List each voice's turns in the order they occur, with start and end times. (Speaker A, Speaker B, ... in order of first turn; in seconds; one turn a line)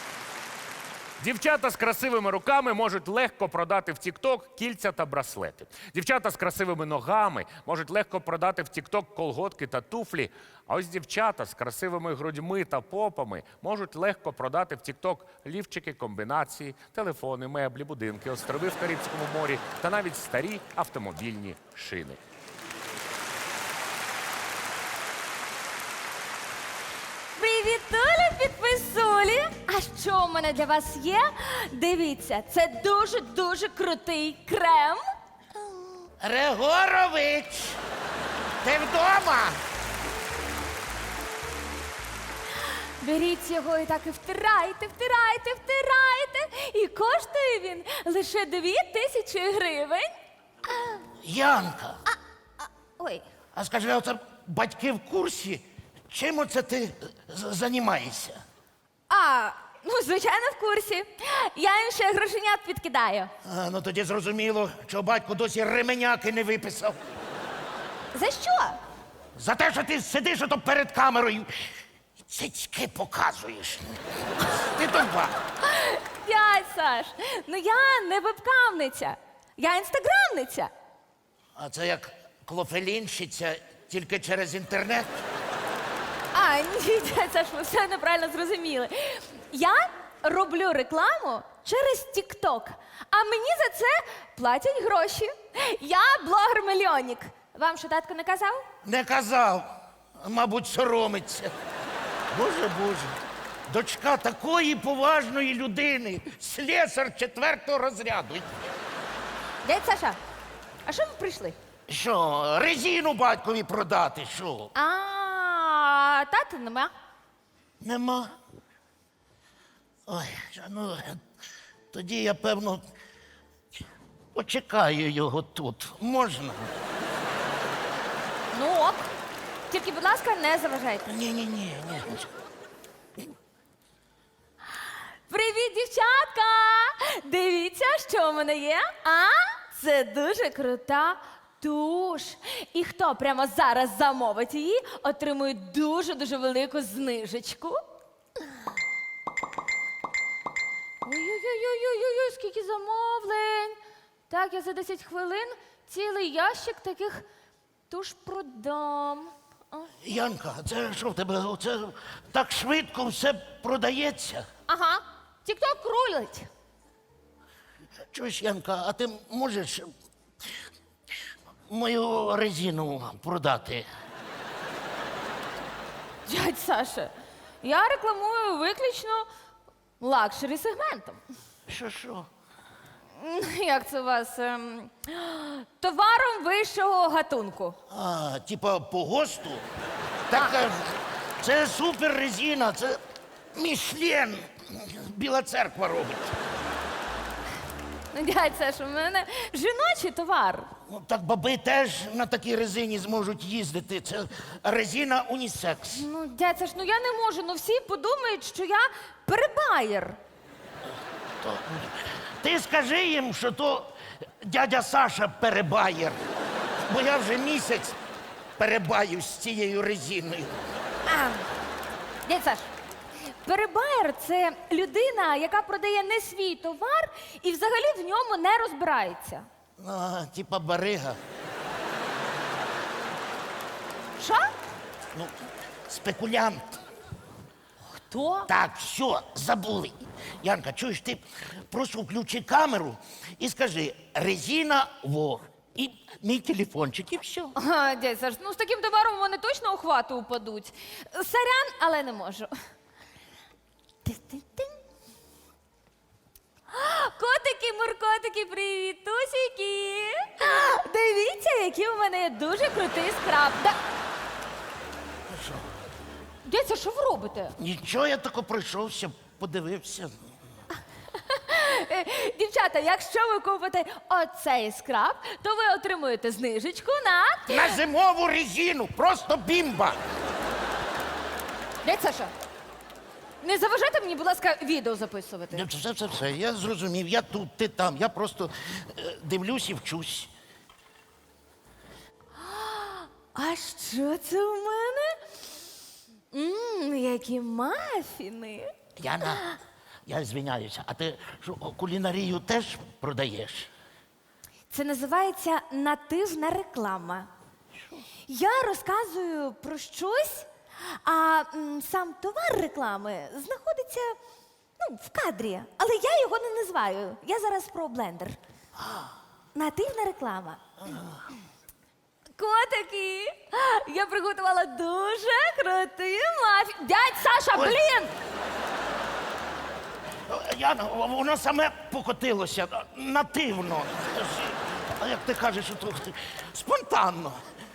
Speaker A: 1.2-22.2
Speaker B: 27.4-35.0
Speaker C: 36.2-37.8
Speaker C: 38.6-39.6
Speaker B: 42.6-50.1
Speaker C: 51.2-52.0
Speaker B: 52.1-53.3
Speaker C: 53.5-58.4
Speaker B: 59.1-63.3
Speaker C: 63.4-67.0
Speaker B: 68.1-68.8
Speaker C: 69.3-75.3
Speaker B: 75.6-80.7
Speaker C: 81.6-85.1
Speaker B: 86.3-98.6
Speaker C: 98.8-101.5
Speaker C: 102.3-108.5
Speaker B: 109.6-110.2
Speaker B: 110.9-111.6
Speaker C: 111.9-114.7
Speaker B: 114.8-116.9
Speaker C: 117.8-118.3
Speaker C: 120.1-121.2
Speaker C: 121.9-122.8
Speaker C: 124.3-126.8
Speaker B: 128.5-129.1
Speaker B: 129.7-131.1
Speaker C: 131.1-132.3
Speaker B: 135.3-147.8
Speaker B: 151.0-153.8
Speaker B: 154.3-157.3
Speaker B: 157.9-159.9
Speaker C: 160.0-164.4
Speaker B: 164.7-166.5
Speaker C: 168.1-169.9
Speaker C: 171.7-173.9
Speaker B: 176.2-179.3
Speaker B: 180.0-181.2
Speaker C: 181.7-182.3
Speaker B: 183.2-187.8
Speaker C: 187.9-189.7
Speaker C: 190.3-193.0
Speaker C: 193.5-196.3
Speaker B: 198.1-200.7
Speaker C: 200.9-206.1
Speaker B: 205.9-210.2
Speaker C: 211.4-216.2
Speaker C: 216.9-218.0
Speaker C: 218.6-220.6
Speaker B: 221.1-221.5
Speaker B: 222.2-222.7
Speaker B: 223.4-229.5
Speaker C: 229.8-231.2
Speaker B: 234.2-234.5
Speaker C: 235.9-236.8
Speaker B: 237.9-238.5
Speaker C: 238.5-247.5
Speaker B: 247.6-252.5
Speaker B: 254.1-254.8
Speaker B: 256.7-263.8
Speaker C: 265.3-265.7
Speaker B: 266.4-267.6
Speaker C: 267.6-270.2
Speaker B: 271.1-277.8
Speaker C: 277.5-280.0
Speaker B: 281.8-282.3
Speaker B: 283.4-285.7
Speaker C: 285.5-290.3
Speaker B: 292.4-295.2
Speaker B: 296.3-298.7
Speaker C: 299.0-299.5
Speaker B: 299.3-299.6
Speaker C: 300.1-303.7
Speaker B: 304.7-307.3
Speaker B: 308.3-314.2
Speaker B: 314.8-318.4
Speaker C: 318.8-319.1
Speaker B: 319.6-320.6
Speaker C: 320.8-321.2
Speaker B: 322.4-328.1
Speaker C: 330.3-337.4